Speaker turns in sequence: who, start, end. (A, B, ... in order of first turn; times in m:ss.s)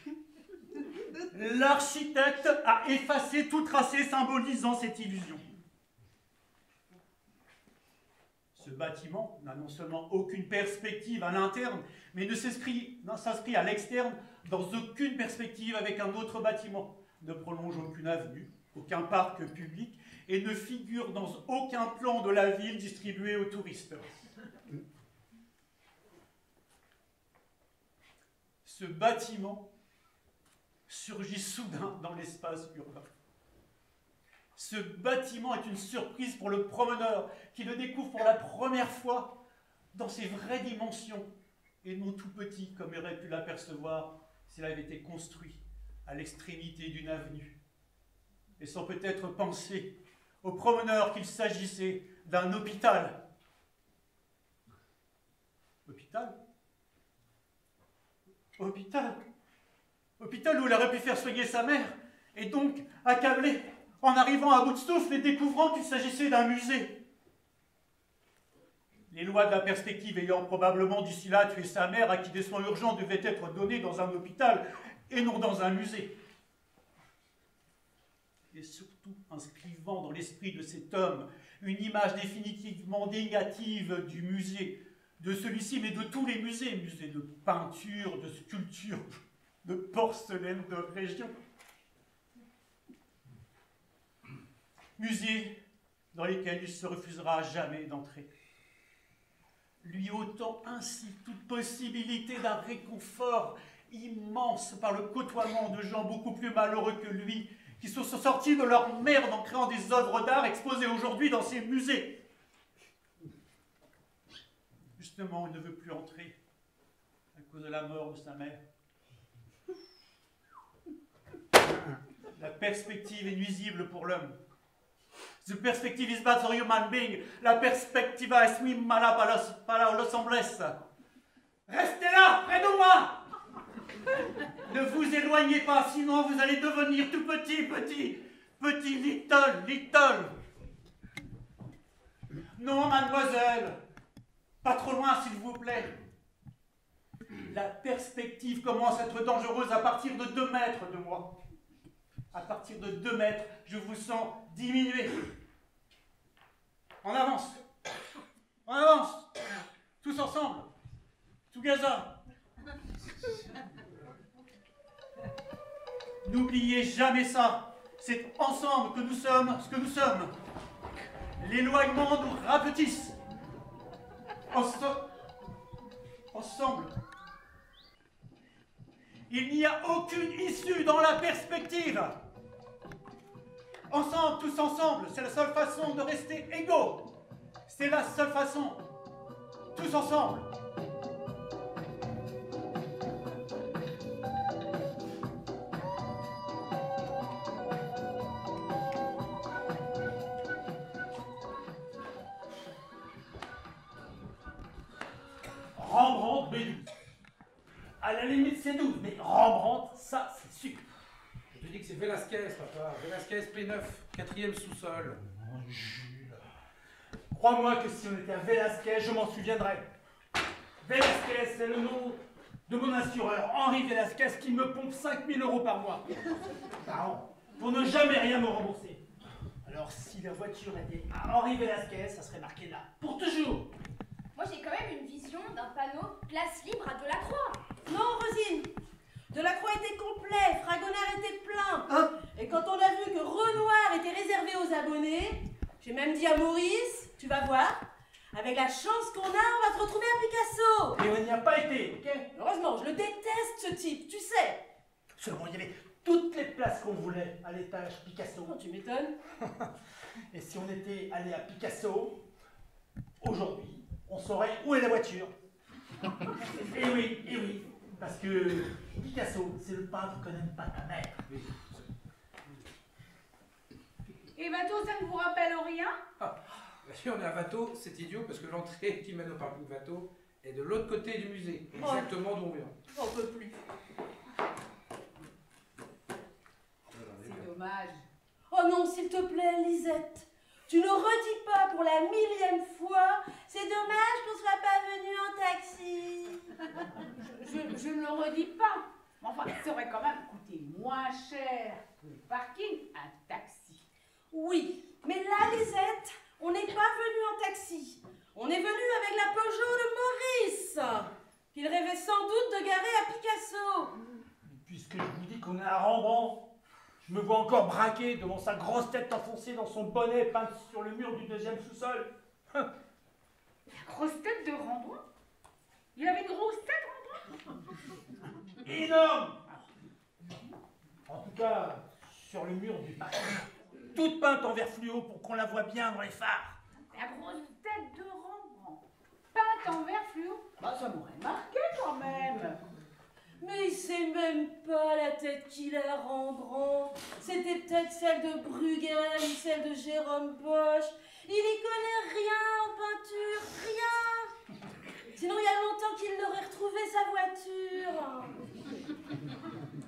0:01.3-0:05.4 A
0:08.6-0:24.1 A
0:28.6-0:29.7 A
0:30.9-0:33.1 A
0:34.6-0:39.4 A
0:39.9-0:41.3 A
0:41.8-0:47.6 A
0:48.6-0:53.2 A
0:55.9-0:56.4 A
0:58.6-0:59.2 A
1:00.2-1:07.0 A
1:09.1-1:16.1 A
1:18.5-1:29.1 A
1:29.6-1:31.4 A
1:35.0-1:35.6 A
1:36.1-1:38.3 A
1:39.8-1:52.2 A
1:55.0-1:56.4 A
1:57.4-1:58.6 A
2:02.4-2:04.4 A
2:05.4-2:10.8 A
2:11.7-2:13.1 B
2:14.6-2:20.4 A
2:22.6-2:23.8 A
2:24.6-2:25.9 A
2:27.5-2:31.4 A
2:32.3-2:35.3 A
2:37.0-2:37.6 A
2:38.7-2:39.3 A
2:40.0-2:40.7 A
2:41.5-2:42.1 A
2:46.2-2:50.3 A
2:51.4-2:53.2 A
2:54.5-2:55.1 A
2:56.3-2:56.9 A
2:59.3-3:02.2 A
3:03.9-3:07.1 A
3:07.7-3:08.8 A
3:09.8-3:10.5 A
3:25.8-3:26.9 B
3:28.0-3:30.8 B
3:31.5-3:35.2 C
3:35.3-3:36.4 B
3:37.3-3:39.9 B
3:40.8-3:46.1 B
3:46.8-3:49.0 B
3:49.6-3:53.7 B
3:54.4-3:57.6 D
3:57.9-3:58.7 E
3:59.3-4:11.0 E
4:11.0-4:12.3 B
4:12.3-4:14.6 E
4:15.2-4:18.6 B
4:18.4-4:19.2 E
4:20.3-4:22.2 B
4:23.2-4:25.3 B
4:26.5-4:31.2 B
4:34.4-4:36.0 F
4:36.2-4:42.7 C
4:43.0-4:43.5 E
4:43.2-4:43.5 F
4:46.9-4:47.5 C
4:47.2-4:48.1 F
4:48.5-4:56.5 E
4:57.2-5:03.8 F
5:04.3-5:14.0 E
5:14.5-5:16.5 B
5:17.0-5:22.7 B
5:23.8-5:25.0 F
5:26.0-5:27.4 F
5:28.6-5:29.5 B
5:31.1-5:36.6 B
5:36.9-5:42.6 F
5:43.4-5:54.3 E
5:55.1-5:58.4 E